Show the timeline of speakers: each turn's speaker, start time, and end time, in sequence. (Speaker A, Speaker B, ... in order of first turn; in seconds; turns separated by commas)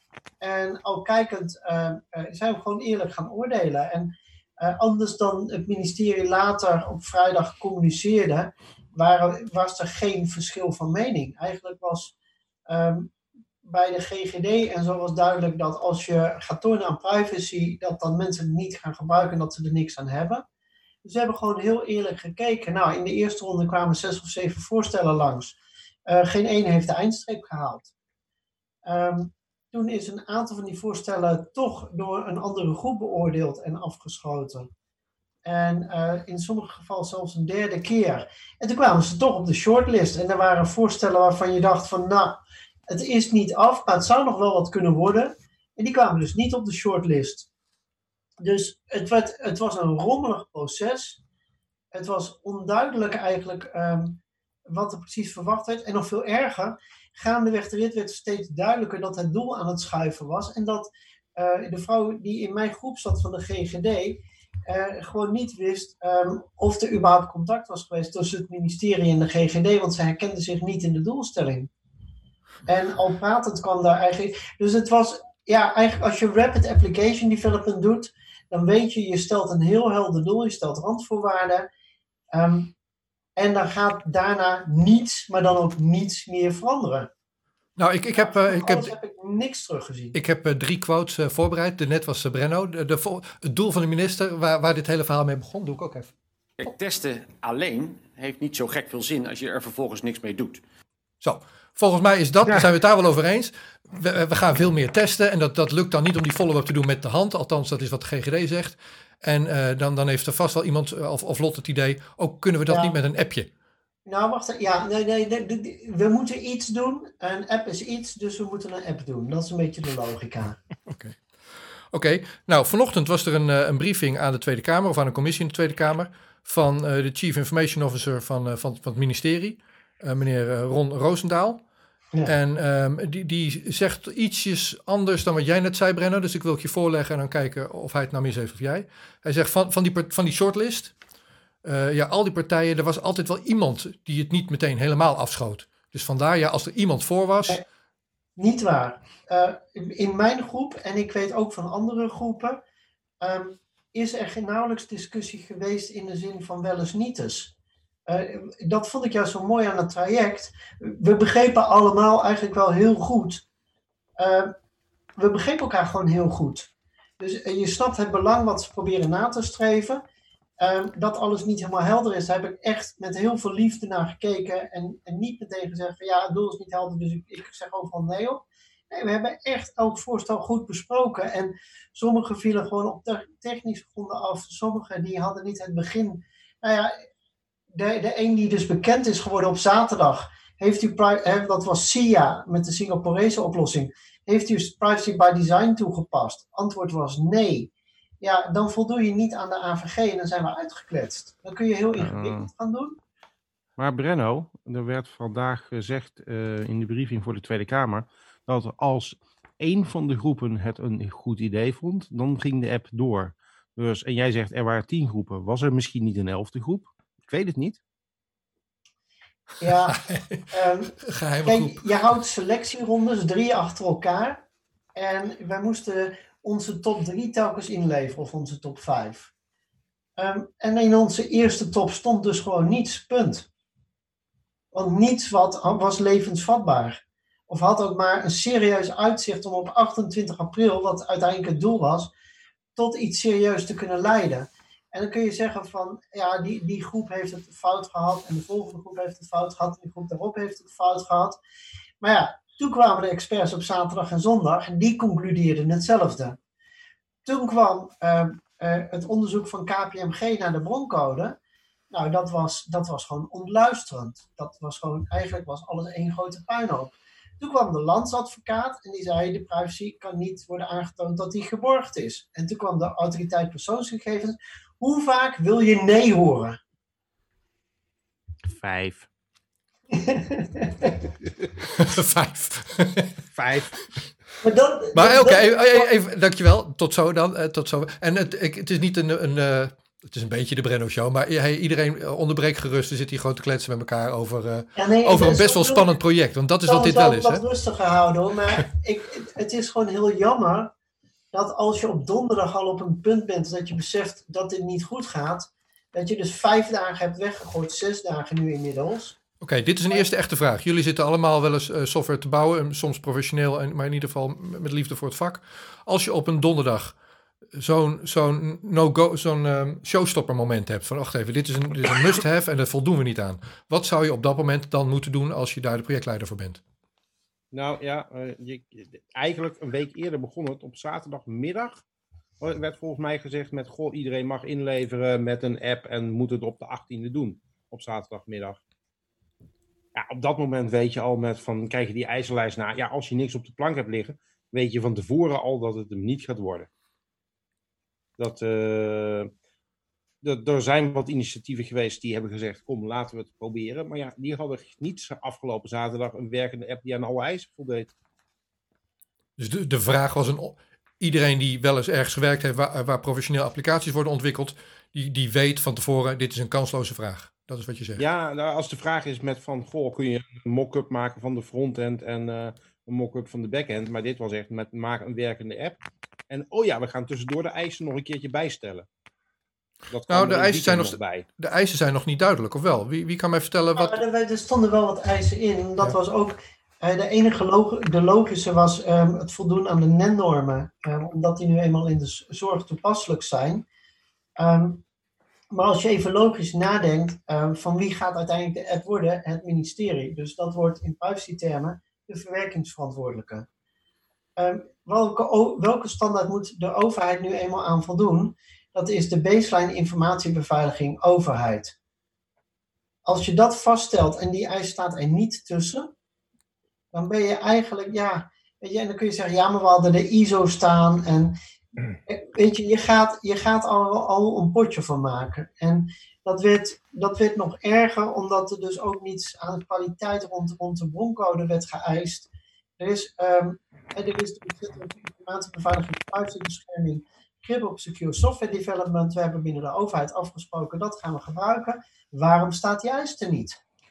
Speaker A: 0.4-12.1, Speaker A: 12.7-13.1, Speaker A: 13.6-20.4, Speaker A: 21.0-27.9, Speaker A: 28.9-34.7, Speaker A: 35.5-47.5, Speaker A: 48.4-51.2, Speaker A: 51.9-71.7, Speaker A: 72.7-81.7, Speaker A: 82.3-82.7, Speaker A: 83.3-87.1, Speaker B: 87.8-88.9, Speaker A: 88.2-90.2, Speaker B: 90.1-96.1, Speaker C: 96.6-100.6, Speaker B: 101.2-113.5, Speaker A: 112.7-113.0, Speaker A: 114.0-120.6, Speaker B: 120.9-121.2, Speaker B: 121.9-131.6, Speaker B: 132.2-140.9, Speaker B: 141.6-147.6, Speaker A: 148.4-152.6, Speaker A: 153.2-157.5, Speaker A: 158.1-163.4, Speaker A: 164.2-164.5, Speaker A: 165.2-166.7, Speaker A: 167.2-170.0, Speaker A: 170.6-186.9, Speaker A: 187.7-197.7, Speaker A: 198.2-203.0, Speaker D: 202.0-202.5, Speaker D: 203.8-217.8, Speaker A: 219.6-224.4, Speaker B: 219.9-220.4, Speaker B: 221.0-221.9, Speaker A: 224.9-229.3, Speaker A: 230.2-233.5, Speaker A: 234.7-242.1, Speaker A: 242.8-251.4, Speaker A: 252.0-256.4, Speaker A: 257.2-261.4, Speaker A: 261.9-276.6, Speaker D: 278.5-279.1, Speaker A: 279.9-280.9, Speaker B: 281.7-283.1, Speaker D: 283.3-283.8, Speaker A: 284.4-285.9, Speaker B: 284.9-297.4, Speaker A: 294.8-295.9, Speaker A: 296.6-300.7, Speaker A: 301.3-309.1, Speaker B: 309.4-316.9, Speaker B: 317.5-326.6, Speaker D: 327.5-331.8, Speaker D: 332.4-338.6, Speaker D: 339.9-346.7, Speaker D: 348.2-349.3, Speaker D: 350.2-357.9, Speaker B: 359.4-368.0, Speaker D: 368.0-378.9, Speaker D: 379.9-381.2, Speaker B: 380.1-384.0, Speaker A: 383.8-393.6, Speaker A: 394.4-394.8, Speaker A: 395.5-403.4, Speaker A: 404.4-411.7, Speaker A: 413.1-415.9, Speaker A: 416.9-421.3, Speaker A: 422.1-443.6